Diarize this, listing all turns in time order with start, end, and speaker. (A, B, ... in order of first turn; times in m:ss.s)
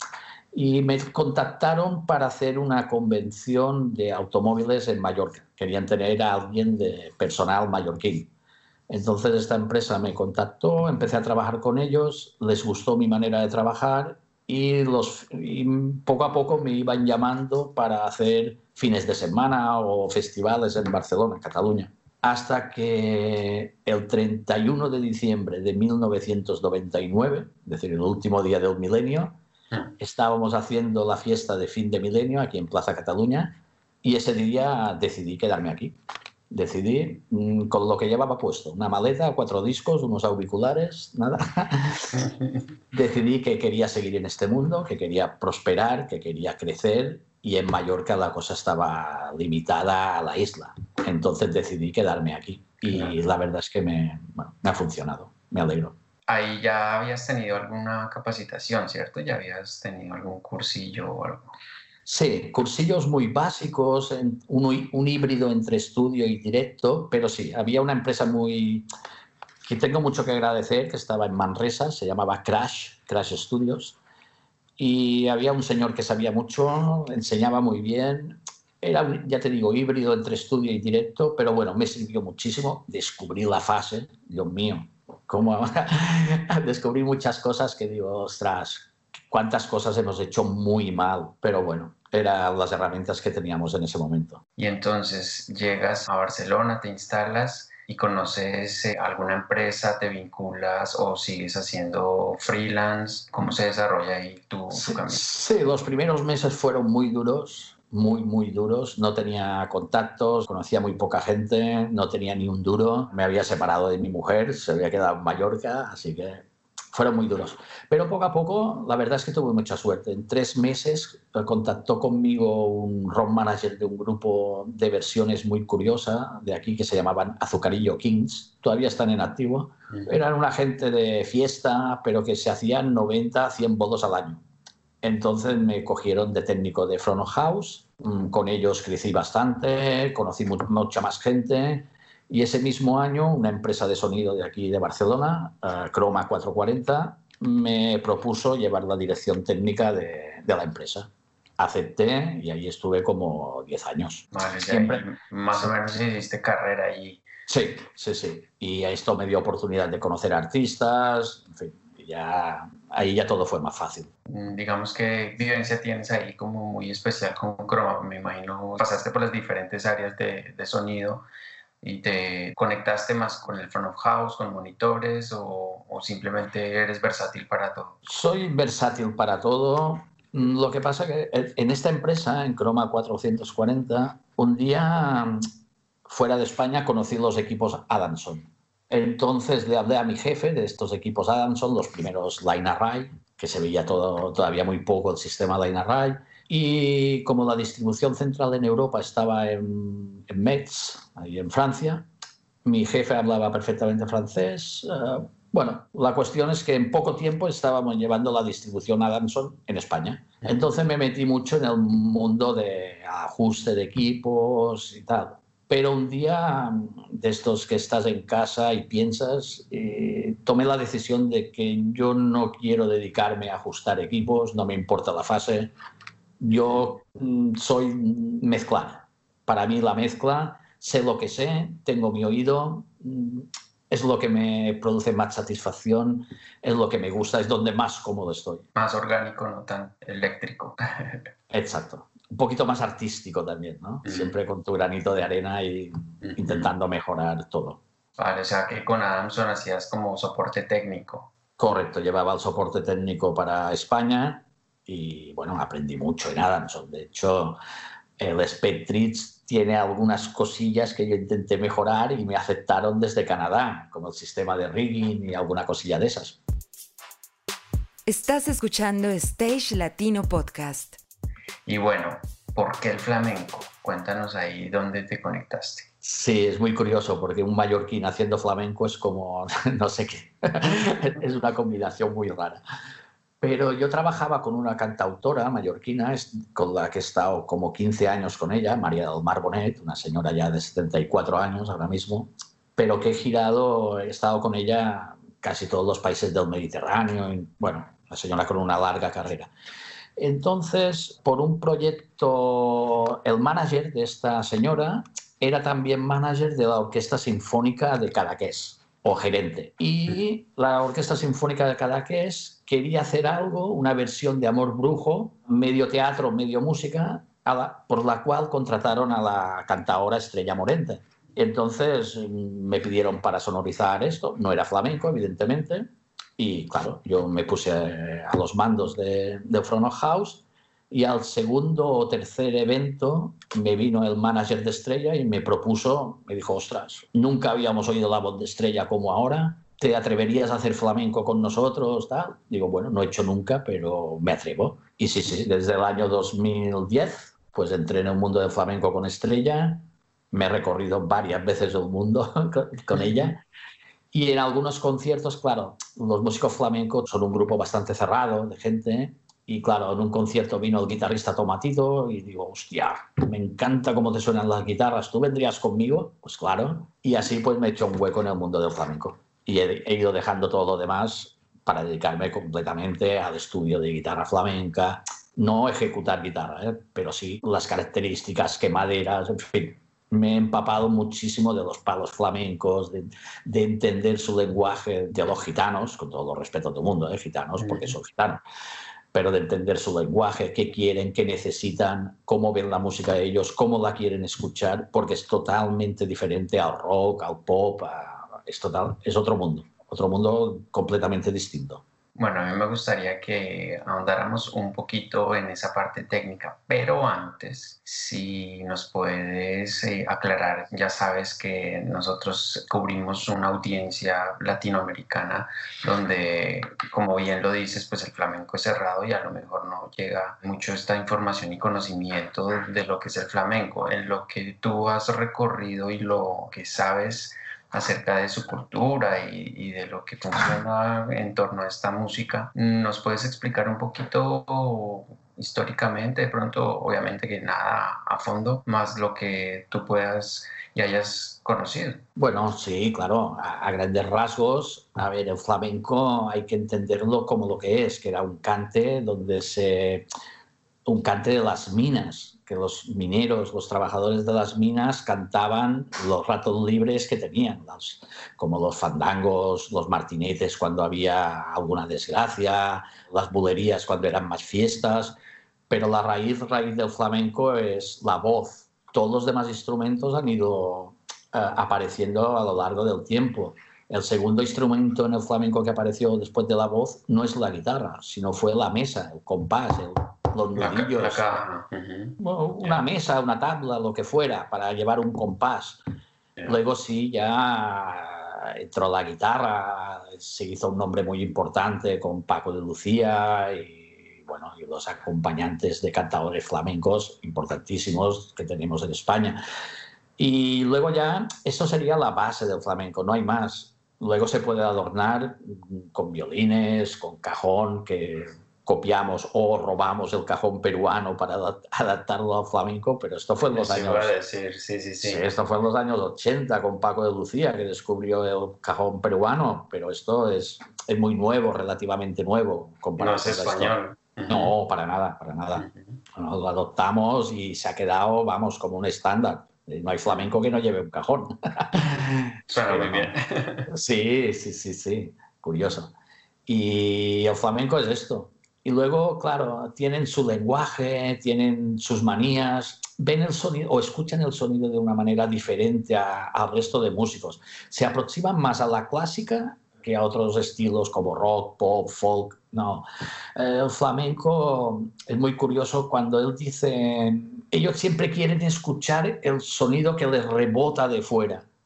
0:00.5-0:08.3 A
0:08.9-0:29.4 A
0:30.0-0:36.0 A
0:36.5-0:42.2 A
0:42.1-0:42.6 B
0:42.9-0:55.9 A
0:56.3-1:01.5 B
1:02.1-1:08.9 A
1:09.6-1:14.0 A
1:14.8-1:34.4 A
1:34.6-1:45.2 B
1:44.7-2:14.4 A
2:09.9-2:10.2 B
2:15.0-2:35.7 A
2:34.3-2:37.2 B
2:37.5-2:44.1 A
2:44.3-2:51.2 B
2:51.8-2:58.0 B
2:58.0-3:05.4 A
3:06.1-3:22.1 A
3:22.6-3:45.7 A
3:46.4-3:58.6 A
3:58.8-4:01.3 B
4:01.5-4:07.8 A
4:04.0-4:04.3 B
4:06.2-4:06.7 B
4:08.2-4:11.3 B
4:11.6-4:17.6 A
4:18.2-4:26.4 A
4:28.1-4:31.0 C
4:31.6-4:35.9 B
4:36.0-4:42.6 A
4:43.4-4:59.5 A
5:00.2-5:53.4 A
5:54.1-6:28.4 A
6:27.6-6:28.0 B
6:29.1-6:41.8 A
6:42.1-7:22.0 B
7:22.2-7:30.1 A
7:30.8-7:45.2 A
7:45.7-8:01.4 A
8:00.6-8:02.8 B
8:02.2-8:05.8 A
8:06.5-8:19.4 A
8:20.2-8:34.1 A
8:33.5-8:35.2 B
8:35.0-8:43.8 A
8:43.0-8:44.5 B
8:44.3-8:53.1 A
8:52.5-8:53.7 B
8:53.7-8:55.9 A
8:56.5-9:12.8 A
9:13.4-9:21.5 A